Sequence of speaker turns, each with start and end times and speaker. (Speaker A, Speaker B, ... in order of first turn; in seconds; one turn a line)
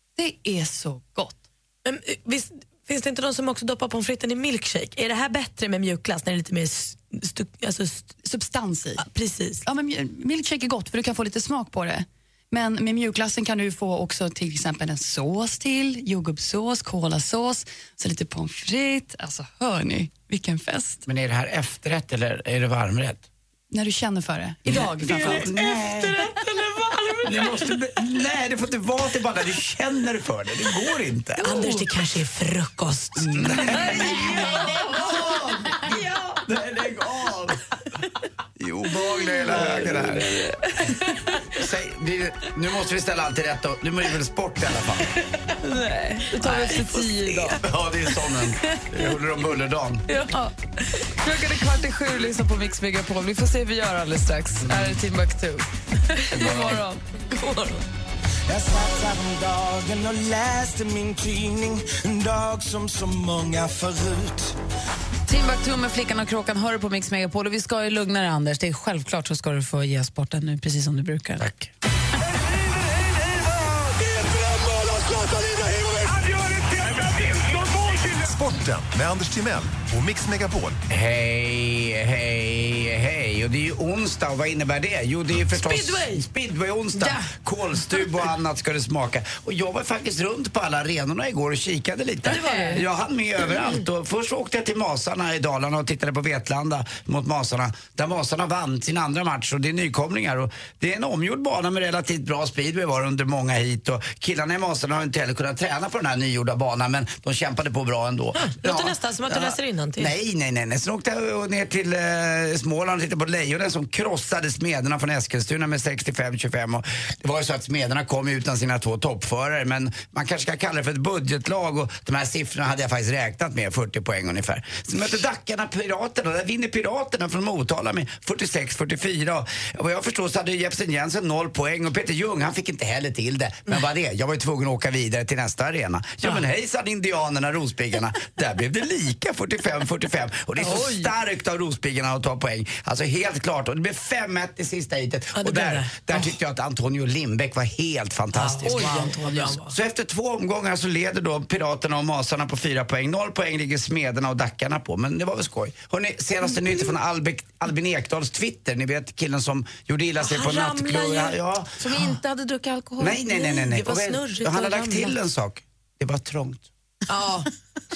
Speaker A: 0.2-1.4
Speaker B: 1.9-8.2
Speaker A: 8.2-9.1
Speaker B: 9.0-9.6
Speaker A: 9.6-21.1
Speaker C: 21.1-23.2
Speaker A: 23.7-25.4
Speaker C: 24.7-26.2
Speaker B: 24.7-27.6
Speaker C: 27.2-31.7
Speaker B: 31.4-34.5
Speaker C: 33.2-34.7
Speaker D: 33.7-34.5
Speaker C: 36.4-37.6
Speaker C: 38.6-40.3
Speaker D: 39.4-41.4
Speaker C: 41.5-45.1
Speaker D: 45.6-47.6
Speaker C: 46.6-50.0
Speaker D: 50.1-57.0
Speaker C: 54.6-55.0
Speaker C: 56.4-56.8
Speaker B: 56.4-56.7
Speaker B: 57.3-57.9
Speaker E: 58.5-64.6
Speaker D: 65.3-71.5
Speaker C: 71.4-71.7
Speaker F: 78.1-80.8
Speaker C: 80.9-162.1
Speaker B: 85.5-86.2
Speaker D: 87.0-87.3
Speaker D: 92.3-92.8
Speaker B: 92.3-92.8
Speaker B: 108.4-110.1
Speaker D: 140.6-141.1
Speaker B: 145.4-145.9
Speaker B: 148.3-149.7
Speaker D: 148.6-149.6
Speaker B: 160.2-161.4
Speaker D: 161.8-163.2
Speaker C: 163.0-166.7
Speaker B: 163.3-165.2
Speaker B: 167.1-167.5